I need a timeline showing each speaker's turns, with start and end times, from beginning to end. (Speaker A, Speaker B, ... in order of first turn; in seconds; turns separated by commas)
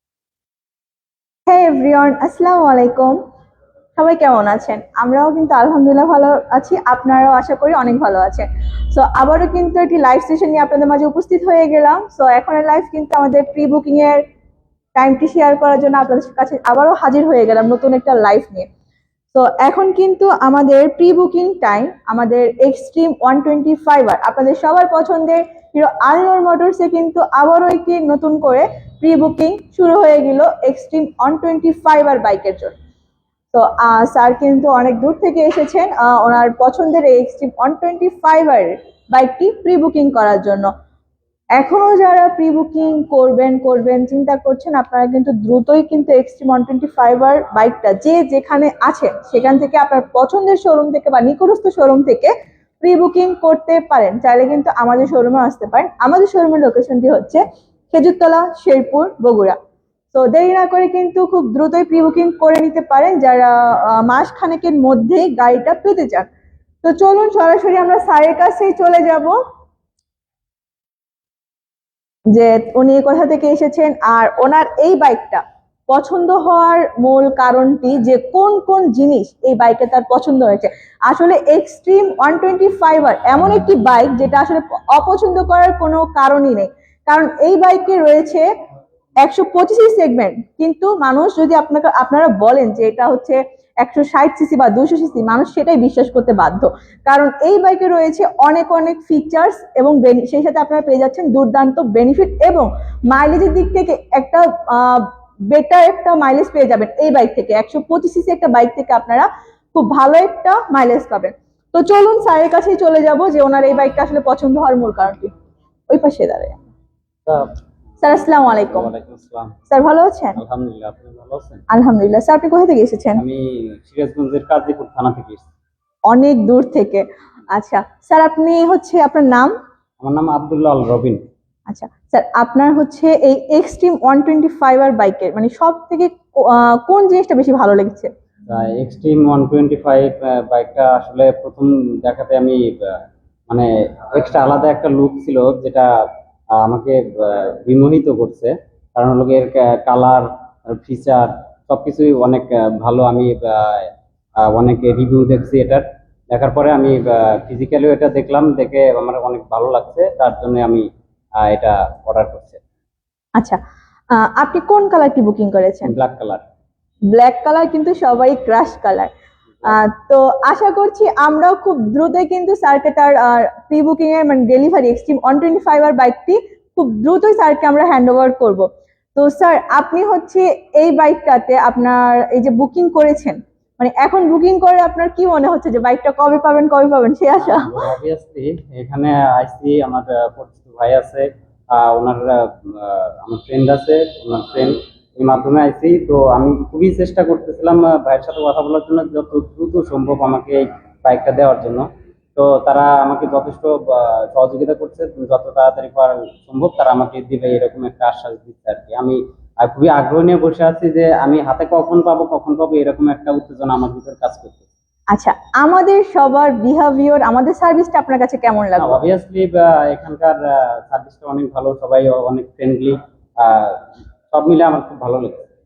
Speaker A: 1.5-3.2, Speaker A: 4.0-14.2, Speaker A: 14.9-18.7, Speaker A: 19.3-32.8, Speaker A: 33.5-40.7, Speaker A: 41.6-59.6, Speaker A: 60.1-66.3, Speaker A: 66.8-69.4, Speaker A: 72.3-88.5, Speaker A: 89.2-115.3, Speaker A: 115.9-116.6, Speaker B: 117.3-117.5, Speaker A: 118.0-118.9, Speaker B: 118.2-119.6, Speaker A: 119.7-120.4, Speaker B: 120.4-121.6, Speaker A: 121.7-123.2, Speaker B: 123.2-125.5, Speaker A: 126.1-129.5, Speaker B: 130.0-131.2, Speaker A: 131.7-138.1, Speaker B: 138.5-145.9, Speaker B: 146.6-153.9, Speaker B: 154.4-160.9, Speaker B: 161.4-162.6, Speaker A: 164.1-165.9, Speaker B: 165.8-166.4, Speaker A: 167.1-169.1, Speaker A: 169.6-187.8, Speaker B: 187.4-214.7, Speaker A: 215.1-219.0, Speaker B: 218.8-225.5